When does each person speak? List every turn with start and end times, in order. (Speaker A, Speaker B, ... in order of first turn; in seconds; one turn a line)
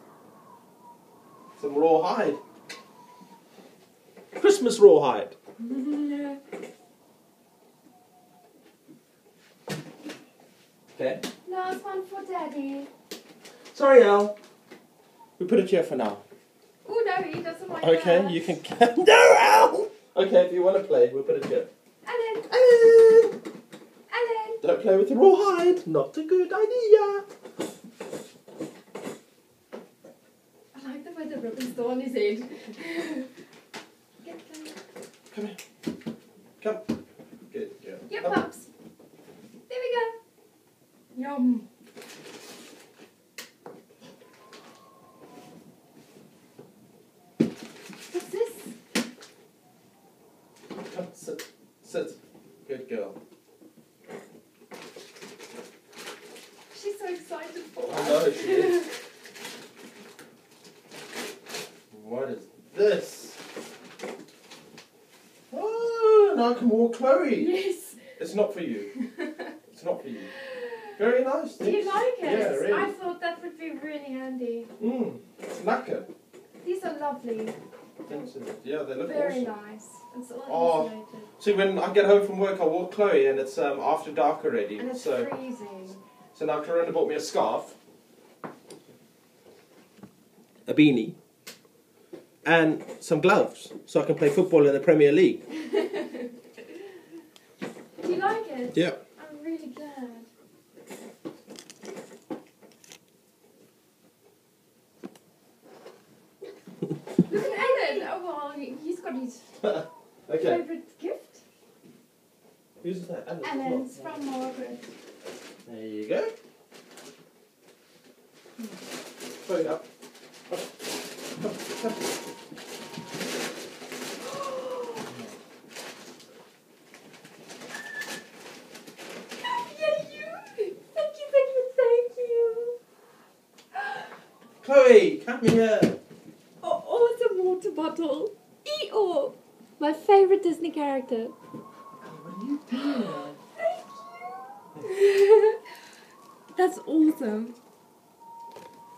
Speaker A: 1.6-2.4
Speaker A: 4.4-5.3
Speaker B: 5.6-6.4
Speaker A: 10.9-11.2
Speaker B: 11.4-12.9
Speaker A: 13.7-14.3
Speaker A: 15.4-16.2
Speaker B: 16.9-18.6
Speaker A: 17.8-21.7
Speaker B: 22.0-22.5
Speaker A: 22.5-23.4
Speaker B: 24.1-24.6
Speaker A: 24.6-27.2
Speaker B: 30.7-33.3
Speaker B: 34.2-34.8
Speaker A: 35.3-35.6
Speaker A: 37.5-38.4
Speaker B: 38.1-38.7
Speaker B: 39.7-40.2
Speaker B: 41.1-41.6
Speaker B: 48.1-48.8
Speaker A: 50.7-53.1
Speaker B: 56.7-58.9
Speaker A: 57.9-58.9
Speaker A: 61.9-63.4
Speaker A: 65.5-67.6
Speaker B: 67.4-68.1
Speaker A: 68.2-68.9
Speaker A: 69.7-70.3
Speaker B: 70.5-70.9
Speaker A: 70.9-72.9
Speaker B: 71.6-74.7
Speaker A: 74.8-76.1
Speaker B: 76.6-78.2
Speaker A: 78.1-79.5
Speaker B: 79.0-81.3
Speaker A: 80.5-85.3
Speaker B: 84.8-86.0
Speaker A: 86.3-87.8
Speaker A: 90.7-91.2
Speaker A: 92.4-95.4
Speaker B: 98.0-100.3
Speaker A: 98.7-99.0
Speaker B: 107.3-109.5
Speaker A: 109.6-110.6
Speaker B: 110.3-111.4
Speaker A: 112.8-114.1
Speaker B: 113.4-114.9
Speaker A: 115.7-116.3
Speaker A: 119.4-119.8
Speaker A: 121.4-122.0
Speaker B: 124.2-125.1
Speaker A: 125.1-125.3
Speaker B: 129.4-132.8
Speaker A: 134.6-136.0
Speaker B: 136.6-141.3
Speaker A: 142.0-143.4
Speaker B: 142.7-145.6
Speaker B: 146.5-147.6